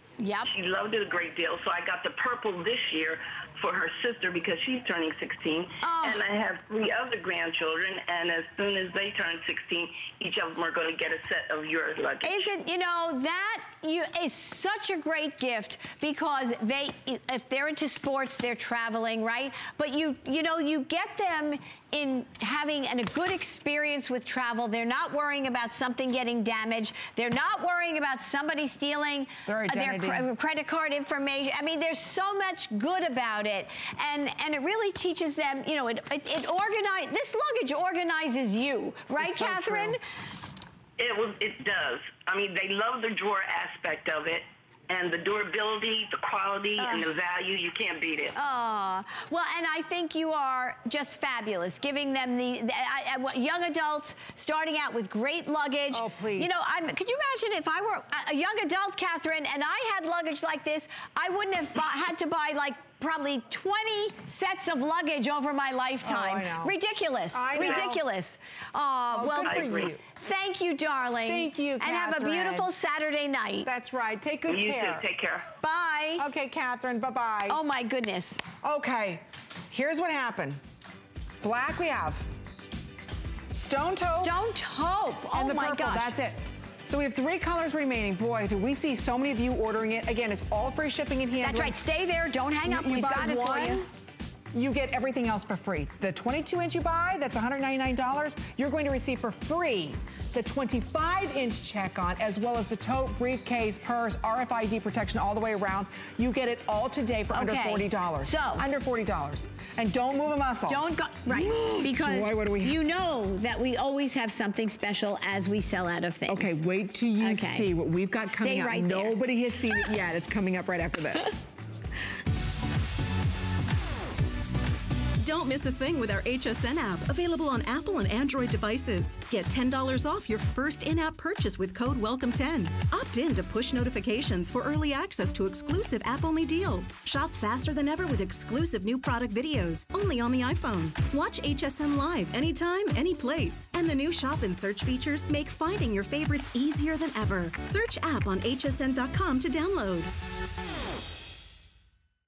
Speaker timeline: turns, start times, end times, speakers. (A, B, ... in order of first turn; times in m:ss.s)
0:00.2-0:00.5 A
0:00.5-0:12.5 B
0:05.8-0:06.3 A
0:12.2-0:40.0 A
0:29.5-0:30.3 C
0:39.2-0:40.0 C
0:41.0-0:48.4 B
0:46.8-0:47.1 A
0:48.3-1:13.7 A
0:55.9-0:56.5 C
1:06.0-1:06.8 C
1:07.3-1:08.0 C
1:09.1-1:10.0 C
1:09.4-1:09.9 B
1:11.3-1:12.7 C
1:13.6-1:15.1 C
1:14.5-1:15.5 B
1:15.6-1:16.3 A
1:16.2-1:17.6 C
1:17.5-1:18.4 A
1:18.6-1:20.6 C
1:21.4-1:22.2 C
1:23.5-1:24.4 C
1:24.2-1:26.1 A
1:25.3-1:31.8 C
1:31.4-1:33.9 A
1:32.7-1:33.9 C
1:34.5-1:52.8 C
1:47.3-1:48.7 A
1:50.7-1:56.6 A
1:56.3-2:01.4 C
1:57.2-1:57.7 A
1:58.3-1:59.2 A
2:05.2-2:30.1 D